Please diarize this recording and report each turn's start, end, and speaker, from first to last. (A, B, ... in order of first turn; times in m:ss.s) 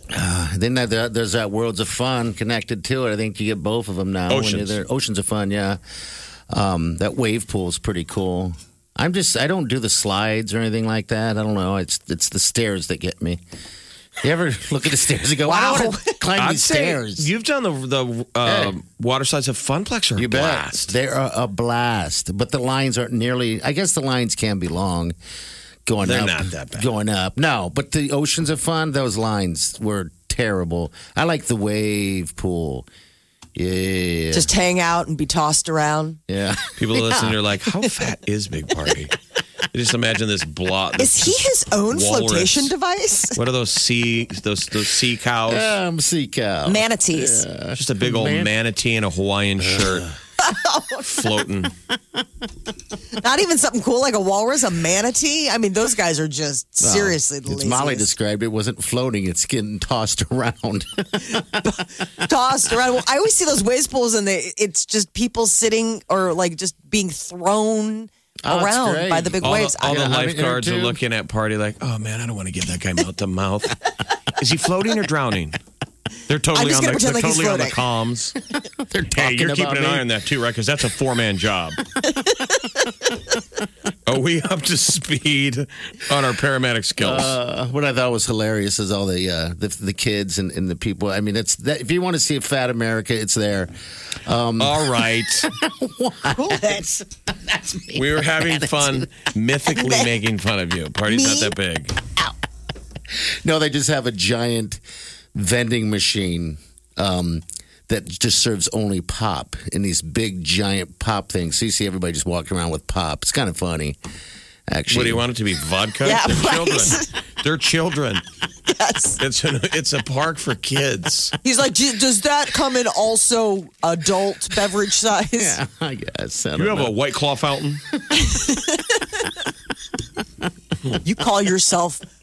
0:00.1-0:05.8 A
0:04.3-0:04.8 B
0:06.5-0:13.4 A
0:14.2-0:17.3 A
0:15.4-0:16.2 C
0:16.4-0:20.9 B
0:18.4-0:18.7 A
0:20.2-0:25.1 A
0:25.8-0:32.9 A
0:26.0-0:26.9 B
0:33.5-0:34.5 A
0:34.3-0:36.2 C
0:36.3-0:37.4 A
0:36.8-0:39.1 B
0:39.7-0:42.7 B
0:41.0-0:43.4 C
0:43.3-0:45.7 B
0:45.5-0:48.5 A
0:46.6-0:47.4 C
0:47.7-0:50.1 B
0:49.6-0:50.1 A
0:50.4-0:51.2 C
0:51.0-0:51.7 B
0:53.2-0:58.1 C
0:56.8-1:01.8 A
1:01.4-1:10.0 C
1:08.4-1:11.0 A
1:09.4-1:13.8 B
1:14.4-1:15.6 B
1:16.3-1:18.3 B
1:16.5-1:17.8 C
1:18.8-1:20.0 A
1:19.1-1:21.8 B
1:22.1-1:22.7 C
1:24.1-1:27.4 B
1:27.0-1:33.7 A
1:34.2-1:39.1 A
1:34.6-1:35.5 B
1:36.3-1:36.8 C
1:37.9-1:42.0 B
1:39.7-1:40.1 C
1:41.1-1:41.5 C
1:43.4-1:44.8 A
1:45.3-1:54.0 A
1:54.7-1:55.2 A
1:54.9-1:58.2 B
1:56.0-1:57.1 C
1:58.7-1:59.2 C
1:59.2-2:01.4 B
2:01.4-2:05.6 C
2:05.4-2:06.9 A
2:06.6-2:07.8 B
2:08.1-2:09.1 C
2:11.0-2:12.0 C